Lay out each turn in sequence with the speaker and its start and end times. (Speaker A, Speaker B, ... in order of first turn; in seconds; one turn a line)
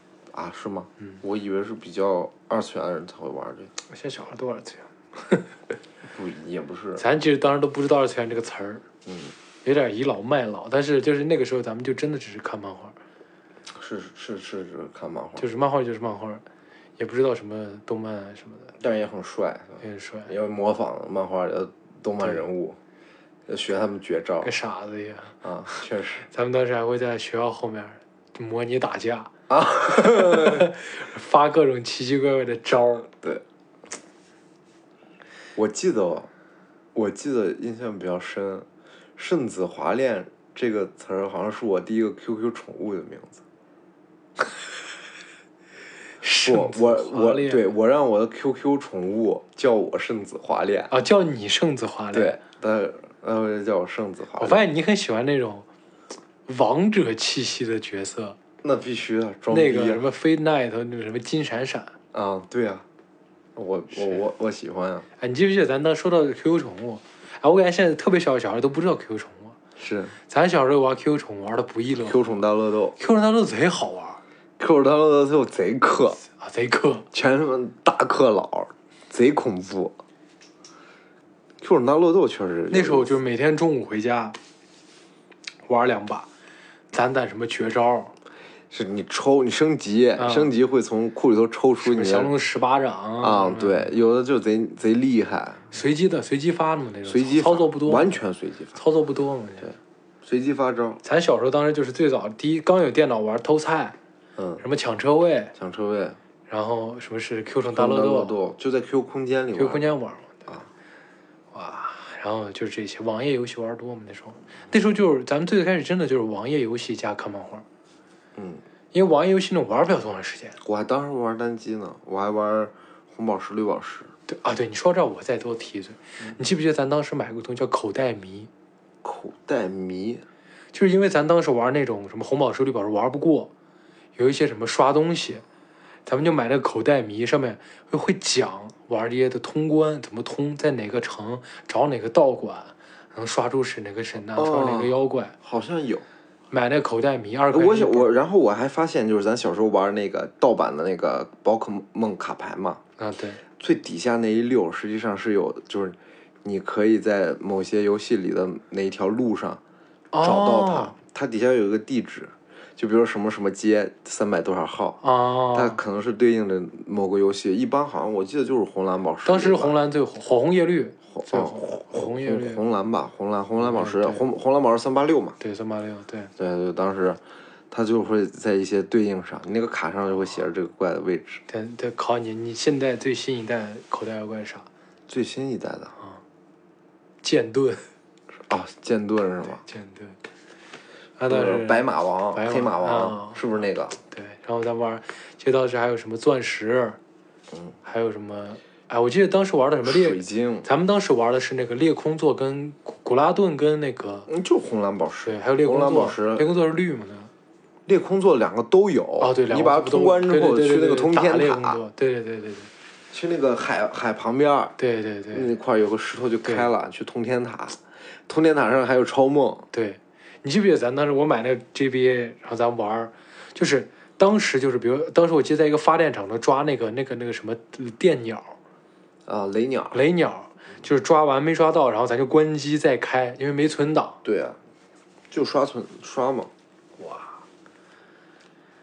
Speaker A: 0.3-3.7
Speaker B: 3.9-5.6
Speaker A: 6.1-7.0
Speaker B: 7.0-8.8
Speaker A: 9.1-9.3
Speaker B: 9.6-13.0
Speaker A: 13.7-15.5
Speaker B: 15.4-16.4
Speaker B: 17.0-18.8
Speaker A: 18.8-22.8
Speaker B: 19.8-20.3
Speaker A: 23.5-24.5
Speaker B: 24.4-25.3
Speaker A: 25.4-26.3
Speaker B: 26.3-29.3
Speaker A: 29.5-30.7
Speaker B: 29.9-33.1
Speaker A: 35.6-36.3
Speaker A: 37.0-43.4
Speaker B: 46.2-47.6
Speaker A: 46.4-50.9
Speaker B: 50.9-52.4
Speaker A: 52.1-54.6
Speaker B: 54.4-55.7
Speaker B: 56.5-58.4
Speaker A: 58.6-60.1
Speaker B: 59.5-61.9
Speaker A: 62.1-62.9
Speaker A: 63.6-65.1
Speaker B: 65.2-69.6
Speaker A: 69.8-70.2
Speaker B: 70.3-72.2
Speaker A: 72.0-73.0
Speaker B: 73.0-74.2
Speaker A: 74.6-76.2
Speaker B: 76.3-77.1
Speaker A: 77.1-80.0
Speaker A: 81.6-83.2
Speaker B: 82.7-84.4
Speaker B: 85.7-86.3
Speaker B: 86.9-88.2
Speaker A: 88.7-92.3
Speaker B: 90.2-90.5
Speaker B: 91.8-93.9
Speaker A: 93.2-95.7
Speaker B: 95.7-98.2
Speaker A: 97.1-98.8
Speaker B: 98.8-99.7
Speaker A: 99.6-101.0
Speaker B: 101.0-104.0
Speaker A: 104.4-104.6
Speaker B: 104.6-105.5
Speaker A: 105.5-106.2
Speaker B: 106.5-108.4
Speaker A: 107.7-110.0
Speaker B: 109.5-110.5
Speaker B: 111.5-117.7
Speaker A: 118.4-118.6
Speaker B: 118.9-120.6
Speaker A: 120.6-124.1
Speaker B: 124.3-128.5
Speaker A: 129.0-130.2
Speaker B: 130.7-133.5
Speaker B: 134.2-135.4
Speaker B: 136.1-145.3
Speaker A: 144.3-146.1
Speaker B: 146.5-148.1
Speaker A: 147.5-152.8
Speaker B: 153.0-153.4
Speaker A: 153.6-159.6
Speaker B: 160.1-160.9
Speaker A: 160.2-169.8
Speaker B: 165.0-165.8
Speaker B: 169.2-172.6
Speaker A: 171.1-175.4
Speaker B: 173.6-174.2
Speaker B: 175.4-176.3
Speaker A: 176.4-181.4
Speaker B: 181.5-184.7
Speaker A: 185.1-185.9
Speaker B: 187.2-187.9
Speaker A: 188.5-189.6
Speaker B: 189.6-190.2
Speaker B: 191.2-193.4
Speaker A: 191.3-194.0
Speaker B: 194.1-197.0
Speaker B: 197.8-204.3
Speaker A: 199.8-200.7
Speaker A: 204.3-206.5
Speaker B: 205.2-207.3
Speaker A: 207.9-211.8
Speaker B: 209.2-212.7
Speaker A: 213.1-214.8
Speaker B: 214.8-215.5
Speaker A: 215.3-219.7
Speaker B: 219.7-228.6
Speaker A: 229.3-230.0
Speaker B: 229.9-234.2
Speaker A: 234.2-234.6
Speaker A: 235.3-236.5
Speaker B: 237.0-237.4